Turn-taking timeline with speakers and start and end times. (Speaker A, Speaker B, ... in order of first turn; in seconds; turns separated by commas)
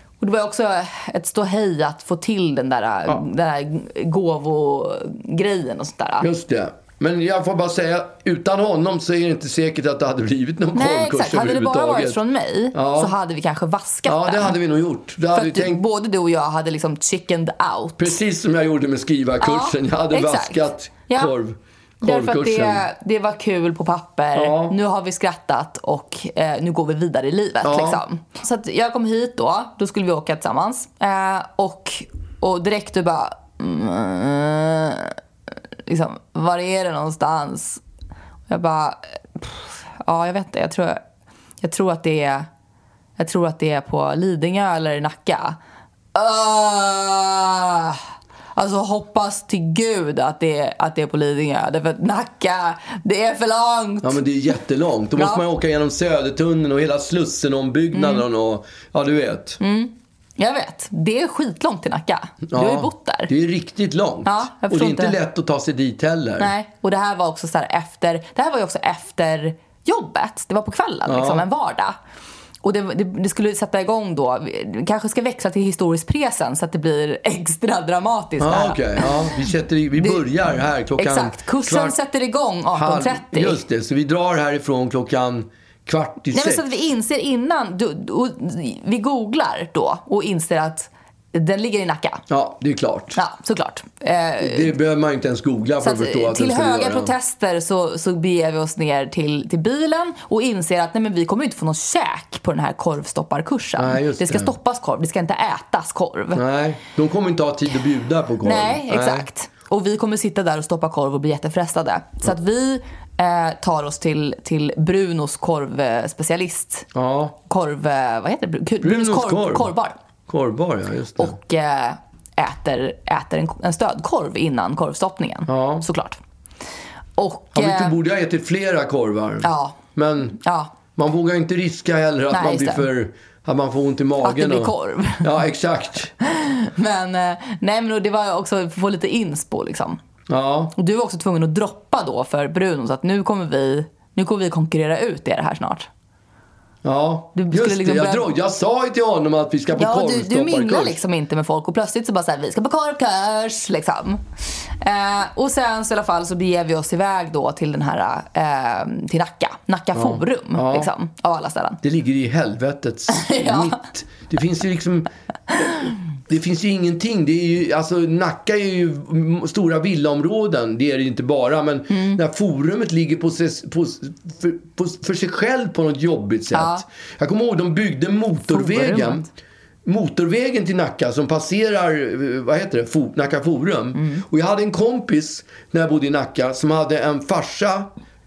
Speaker A: 0.2-6.3, Speaker B: 6.2-12.2, Speaker A: 10.7-14.6, Speaker B: 12.7-13.1, Speaker B: 14.1-15.8, Speaker A: 15.3-18.2, Speaker B: 18.0-22.8, Speaker A: 19.4-21.3, Speaker A: 22.0-35.1, Speaker B: 24.3-24.8, Speaker B: 27.6-28.0, Speaker A: 35.9-37.8, Speaker A: 38.5-41.0, Speaker A: 41.6-42.5, Speaker A: 43.2-45.6, Speaker A: 46.1-48.0, Speaker A: 48.5-54.2, Speaker B: 54.0-59.6, Speaker A: 55.1-55.4, Speaker A: 57.9-58.2, Speaker A: 59.6-63.3, Speaker B: 62.5-66.5, Speaker A: 64.2-65.2, Speaker A: 66.4-72.0, Speaker B: 71.1-71.5, Speaker A: 72.6-79.4, Speaker B: 78.4-82.0, Speaker A: 80.0-80.3, Speaker A: 81.0-83.6, Speaker B: 82.7-86.7, Speaker A: 86.3-92.2, Speaker B: 92.3-93.2, Speaker A: 93.1-94.7, Speaker B: 94.4-97.1, Speaker A: 95.8-106.4, Speaker B: 103.8-104.5, Speaker B: 106.3-109.3, Speaker A: 108.4-116.9, Speaker B: 116.9-117.3, Speaker A: 117.5-119.9, Speaker B: 118.8-119.7, Speaker B: 120.3-121.3, Speaker A: 121.2-126.2, Speaker B: 125.5-125.8, Speaker A: 127.2-128.0, Speaker B: 127.5-130.4, Speaker A: 129.4-129.8, Speaker A: 130.4-130.7, Speaker B: 130.9-136.1, Speaker A: 132.3-132.8, Speaker A: 134.2-135.3, Speaker A: 136.2-140.0, Speaker B: 140.3-140.7, Speaker A: 140.7-145.9, Speaker B: 146.8-151.0, Speaker A: 147.3-148.3, Speaker A: 149.7-154.2, Speaker A: 154.8-161.8, Speaker B: 159.9-160.9, Speaker B: 161.8-165.7, Speaker A: 163.1-163.8, Speaker B: 166.3-179.3, Speaker A: 171.9-172.2, Speaker A: 176.5-176.8, Speaker A: 178.4-179.3, Speaker B: 179.8-187.9, Speaker A: 183.9-184.2